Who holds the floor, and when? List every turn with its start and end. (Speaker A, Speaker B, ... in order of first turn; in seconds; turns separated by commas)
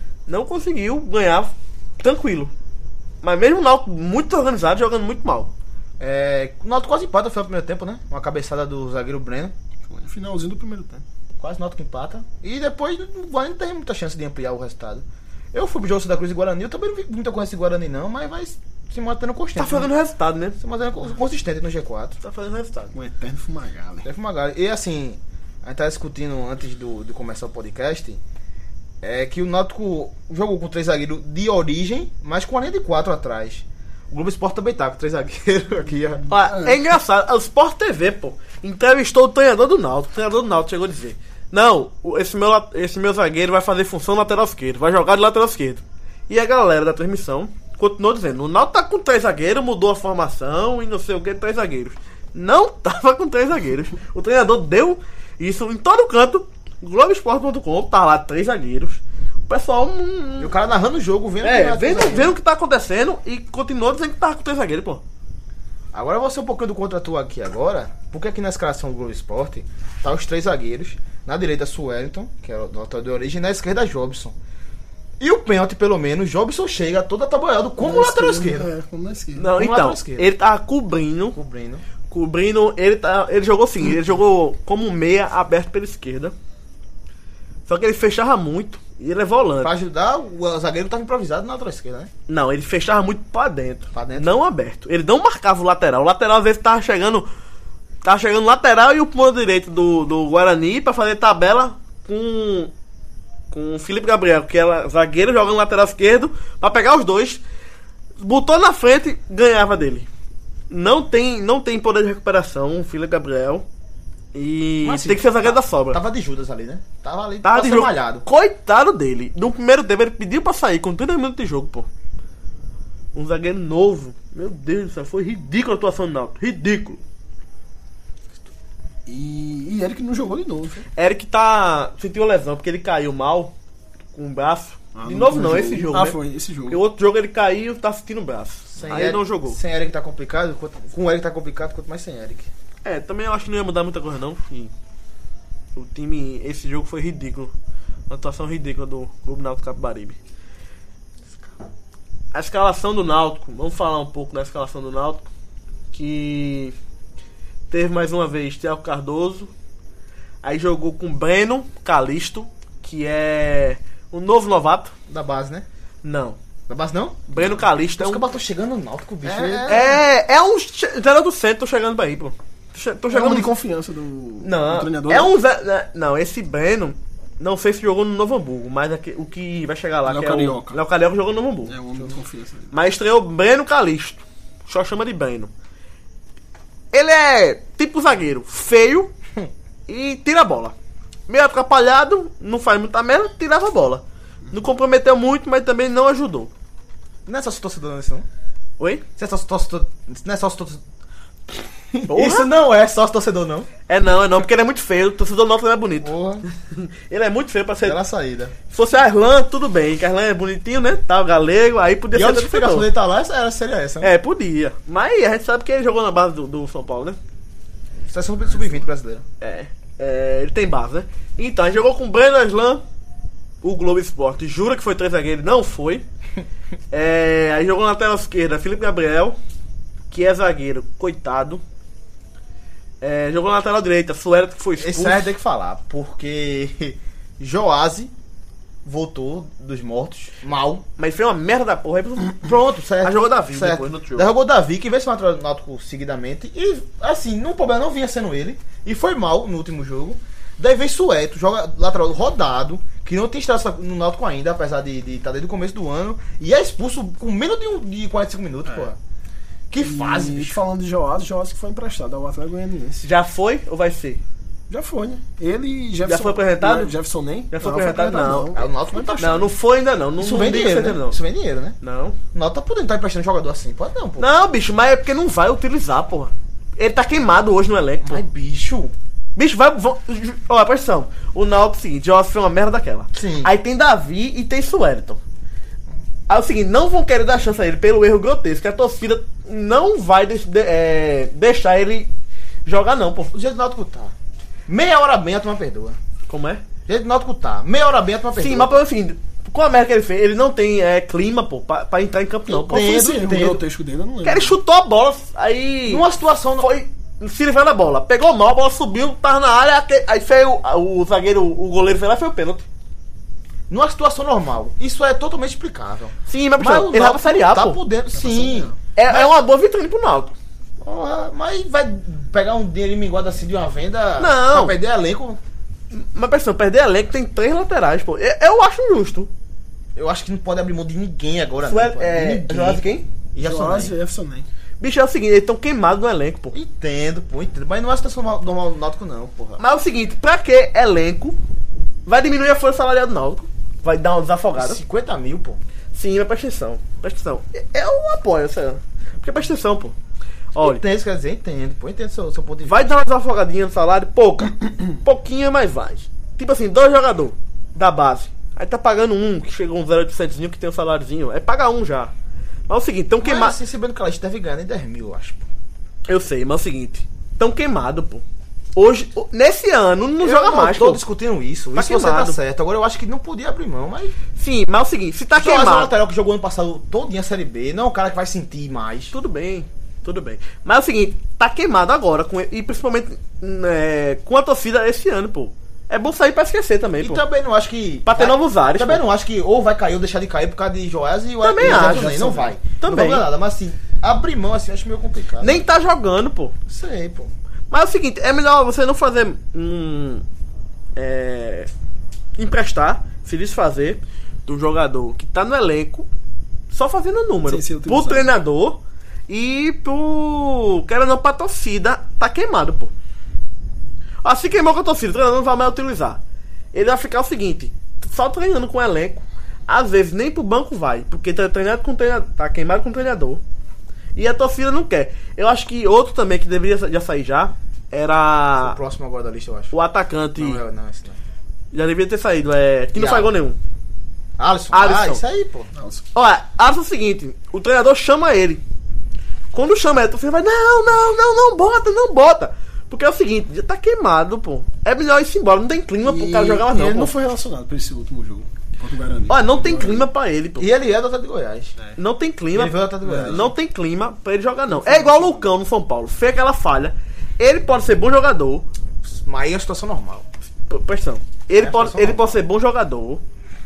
Speaker A: 0.3-2.5, Speaker A: 3.2-5.5, Speaker B: 6.0-9.5, Speaker C: 9.8-11.0, Speaker B: 11.4-19.9, Speaker A: 19.6-20.6, Speaker B: 20.6-22.2, Speaker A: 22.2-22.9, Speaker C: 22.9-24.1, Speaker B: 24.0-28.2, Speaker B: 29.0-36.2, Speaker A: 36.3-60.5, Speaker B: 60.4-62.3, Speaker A: 61.4-65.0, Speaker B: 65.9-74.3, Speaker B: 75.2-78.7, Speaker C: 77.8-79.5, Speaker A: 79.3-81.3, Speaker B: 79.5-80.3, Speaker B: 81.3-81.8, Speaker A: 82.1-86.3, Speaker A: 87.7-89.7, Speaker B: 89.6-92.1, Speaker A: 92.3-97.3, Speaker B: 93.9-94.3, Speaker A: 98.0-102.7, Speaker A: 103.5-107.4, Speaker A: 108.2-110.1, Speaker A: 110.7-113.7, Speaker A: 114.3-116.0, Speaker B: 114.8-118.2, Speaker A: 117.4-121.9, Speaker A: 123.1-127.0, Speaker C: 129.1-130.8, Speaker A: 130.9-133.5, Speaker A: 134.1-139.6, Speaker C: 134.9-136.8, Speaker B: 138.7-142.5, Speaker A: 142.8-144.7, Speaker A: 145.7-147.5, Speaker A: 148.1-150.2, Speaker A: 152.3-155.3, Speaker A: 155.9-156.7, Speaker A: 157.7-159.5, Speaker A: 160.4-164.9, Speaker B: 165.1-165.6, Speaker A: 166.0-166.4, Speaker B: 166.7-170.0, Speaker A: 167.3-168.2, Speaker C: 169.2-169.9, Speaker A: 169.7-173.5, Speaker C: 173.1-175.3, Speaker A: 174.4-181.8, Speaker C: 180.0-180.8, Speaker C: 181.7-182.7, Speaker A: 182.7-185.5, Speaker A: 186.9-189.1, Speaker A: 189.9-190.7, Speaker A: 191.3-196.5, Speaker B: 197.2-198.2, Speaker A: 198.8-199.0, Speaker B: 199.2-200.8, Speaker B: 201.5-203.7, Speaker A: 202.1-202.5, Speaker A: 203.9-208.0, Speaker B: 206.0-206.4, Speaker B: 207.8-208.5, Speaker A: 208.7-212.9, Speaker B: 212.1-214.1, Speaker A: 214.0-217.2, Speaker B: 218.0-219.2, Speaker A: 219.4-222.8, Speaker A: 223.6-226.1, Speaker A: 226.9-229.4, Speaker A: 230.1-231.6, Speaker A: 233.0-235.3, Speaker B: 234.8-238.1, Speaker B: 238.8-240.8, Speaker A: 241.0-242.5, Speaker B: 242.4-259.0, Speaker A: 243.0-244.3, Speaker B: 259.7-260.6, Speaker C: 259.8-263.0, Speaker A: 263.0-264.2, Speaker C: 264.7-269.2, Speaker A: 266.0-266.9, Speaker A: 267.5-268.5, Speaker B: 268.5-269.5, Speaker A: 269.2-271.2, Speaker B: 270.2-271.8, Speaker A: 271.8-272.2, Speaker B: 272.3-274.3, Speaker A: 274.2-278.2, Speaker B: 278.0-278.9, Speaker A: 279.4-285.2, Speaker B: 283.1-283.5, Speaker A: 286.3-292.1, Speaker A: 292.6-293.3, Speaker B: 293.3-294.1, Speaker B: 294.7-296.0, Speaker A: 296.3-296.6, Speaker B: 296.9-298.8, Speaker A: 298.4-302.9, Speaker C: 302.6-304.6, Speaker B: 302.6-303.6, Speaker A: 304.2-306.0, Speaker B: 305.9-306.7, Speaker A: 306.6-312.6, Speaker B: 313.7-319.3, Speaker A: 316.3-317.8, Speaker C: 318.1-318.7, Speaker A: 318.9-320.3, Speaker B: 320.8-325.4, Speaker A: 324.2-324.8, Speaker A: 325.9-329.3, Speaker B: 329.9-333.9, Speaker A: 331.6-333.1, Speaker C: 333.4-334.5, Speaker A: 334.8-336.6, Speaker B: 336.5-339.6, Speaker A: 339.6-341.4, Speaker A: 342.1-344.8, Speaker B: 344.6-345.6, Speaker A: 345.9-349.9, Speaker A: 350.5-350.8, Speaker B: 350.6-352.9, Speaker A: 352.6-362.1, Speaker A: 362.7-363.6, Speaker B: 363.2-365.4, Speaker A: 366.1-371.0, Speaker B: 370.2-374.1, Speaker A: 371.7-372.4, Speaker A: 374.4-375.9, Speaker B: 375.4-379.1, Speaker A: 379.1-387.2, Speaker B: 387.0-395.6, Speaker A: 388.0-389.0, Speaker A: 391.4-393.2, Speaker C: 391.6-392.5, Speaker A: 395.4-396.5, Speaker B: 396.7-397.3, Speaker A: 397.7-400.2, Speaker A: 400.9-401.7, Speaker A: 402.4-406.1, Speaker A: 406.7-412.9, Speaker C: 407.4-408.3, Speaker A: 414.2-416.2, Speaker A: 416.7-423.4, Speaker A: 424.1-428.8, Speaker B: 428.6-429.7, Speaker A: 429.7-430.6, Speaker B: 430.4-431.2, Speaker A: 431.7-433.6, Speaker B: 432.9-433.3, Speaker B: 434.4-435.7, Speaker A: 434.7-435.2, Speaker C: 435.7-436.0, Speaker A: 436.1-438.6, Speaker A: 439.5-447.1, Speaker C: 446.0-450.1, Speaker A: 449.3-450.7, Speaker B: 450.6-451.7, Speaker A: 452.0-458.7, Speaker B: 452.5-453.5, Speaker C: 453.0-453.5, Speaker C: 454.7-455.5, Speaker B: 459.0-460.3, Speaker A: 460.7-463.2, Speaker B: 461.5-462.4